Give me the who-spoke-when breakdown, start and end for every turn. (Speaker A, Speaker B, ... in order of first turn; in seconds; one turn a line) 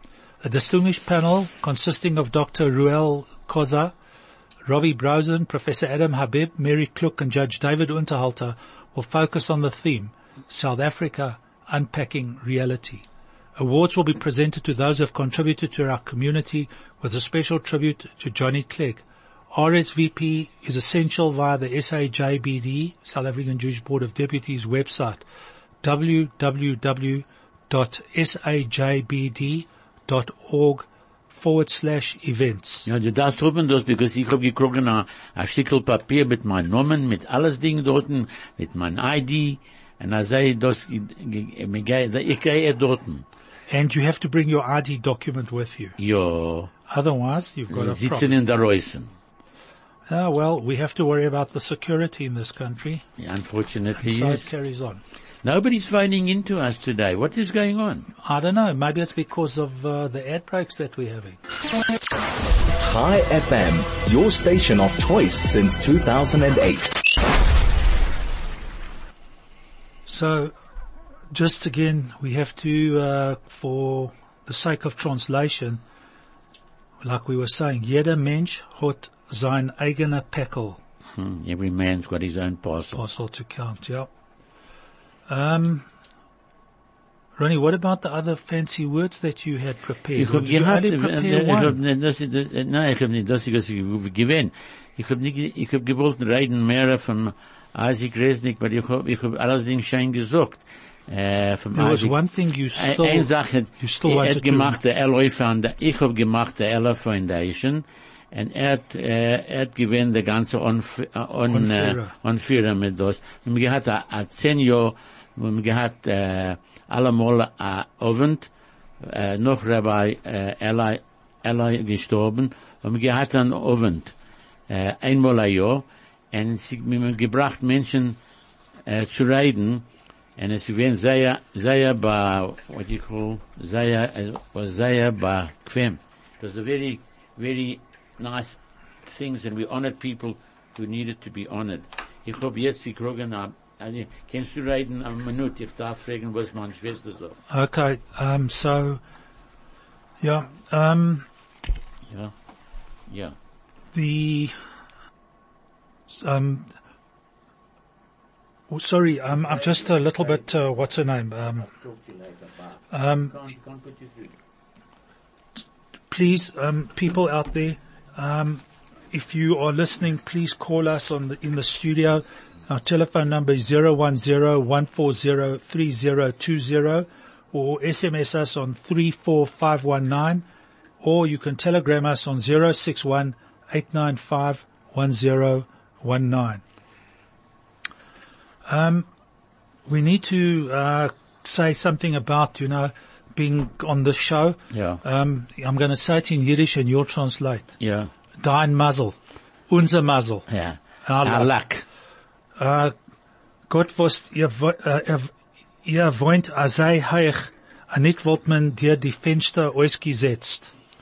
Speaker A: 0.4-3.9
Speaker A: 4.7-13.1
Speaker A: 13.6-25.2
Speaker A: 25.8-32.9
Speaker B: 32.9-43.2
Speaker A: 43.7-46.0
Speaker B: 46.0-46.7
Speaker A: 46.9-48.4
Speaker B: 47.7-49.1
Speaker A: 50.1-53.0
Speaker B: 53.2-54.5
Speaker A: 54.0-55.0
Speaker B: 55.4-58.1
Speaker A: 58.2-61.4
Speaker C: 62.8-67.0
Speaker A: 70.1-70.5
Speaker A: 71.3-75.8
Speaker A: 77.0-80.8
Speaker B: 81.2-83.0
Speaker A: 83.0-84.1
Speaker A: 85.3-85.9
Speaker A: 87.4-91.8
Speaker B: 90.2-102.2
Speaker A: 101.7-104.8
Speaker B: 102.7-118.5
Speaker A: 111.5-112.1
Speaker B: 119.0-124.1
Speaker B: 124.7-128.2
Speaker B: 128.9-129.8
Speaker B: 130.4-147.4
Speaker A: 147.5-149.0
Speaker A: 150.2-151.3
Speaker B: 153.1-153.3
Speaker A: 153.9-154.6
Speaker A: 156.1-156.7
Speaker A: 158.7-161.7
Speaker B: 159.6-160.4
Speaker B: 161.7-164.3
Speaker A: 162.9-163.4
Speaker A: 166.1-180.4
Speaker A: 181.0-186.6
Speaker A: 188.7-189.1
Speaker A: 189.9-197.8
Speaker B: 194.7-195.0
Speaker B: 197.8-198.1
Speaker A: 198.4-199.2
Speaker A: 199.7-200.5
Speaker B: 200.5-201.8
Speaker A: 201.1-201.5
Speaker A: 202.6-202.9
Speaker A: 203.7-205.3
Speaker A: 205.8-210.7